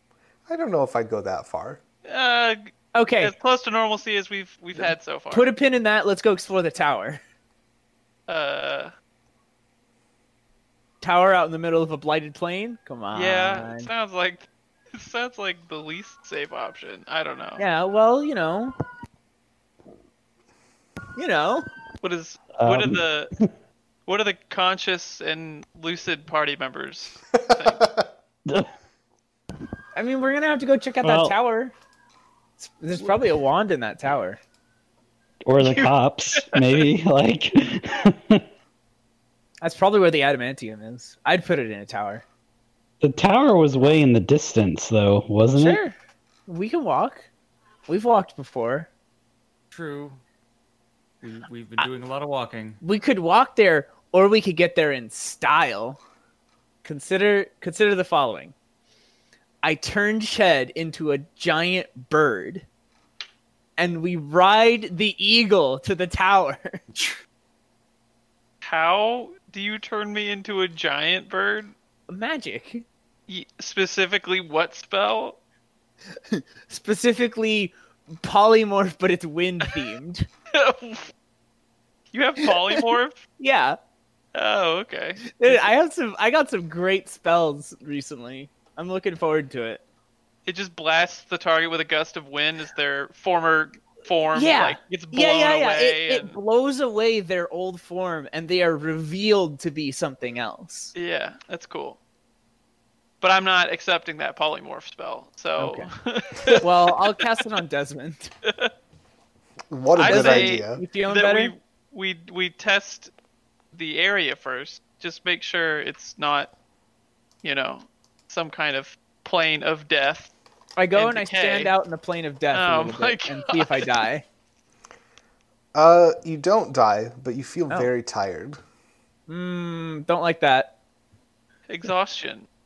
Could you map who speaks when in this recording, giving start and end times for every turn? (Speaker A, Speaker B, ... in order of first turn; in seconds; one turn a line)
Speaker A: 0.5-1.8
Speaker B: 2.1-5.5
Speaker C: 2.9-3.3
Speaker C: 4.7-7.2
Speaker B: 8.3-8.9
Speaker C: 11.0-13.9
Speaker B: 13.1-17.6
Speaker C: 17.6-18.7
Speaker C: 21.1-21.7
Speaker B: 22.0-23.3
Speaker D: 22.5-23.5
Speaker B: 24.1-27.9
Speaker A: 27.4-28.0
Speaker C: 29.9-31.7
Speaker D: 31.0-31.4
Speaker C: 32.6-34.4
Speaker D: 35.5-38.4
Speaker B: 35.6-36.8
Speaker C: 39.6-42.2
Speaker D: 43.0-45.8
Speaker C: 45.5-45.9
Speaker C: 46.5-47.3
Speaker C: 47.9-48.9
Speaker E: 49.7-50.2
Speaker E: 51.2-52.8
Speaker C: 52.8-56.0
Speaker C: 56.8-58.5
Speaker C: 59.6-62.6
Speaker C: 63.8-66.8
Speaker B: 68.6-71.7
Speaker C: 72.1-72.8
Speaker B: 73.3-75.4
Speaker C: 76.3-80.3
Speaker B: 80.5-81.1
Speaker B: 82.1-83.2
Speaker C: 82.4-82.9
Speaker C: 83.4-83.8
Speaker B: 84.3-85.7
Speaker C: 85.3-89.8
Speaker B: 90.5-96.3
Speaker C: 94.3-100.9
Speaker B: 100.9-102.0
Speaker B: 103.2-106.9
Speaker C: 105.6-105.9
Speaker C: 106.5-108.3
Speaker A: 109.7-110.8
Speaker B: 110.0-113.1
Speaker C: 110.0-111.5
Speaker B: 113.7-116.5
Speaker B: 117.4-120.3
Speaker C: 120.8-124.2
Speaker B: 120.9-121.7
Speaker B: 122.5-124.0
Speaker A: 125.7-128.6
Speaker C: 129.3-130.7
Speaker B: 131.7-132.5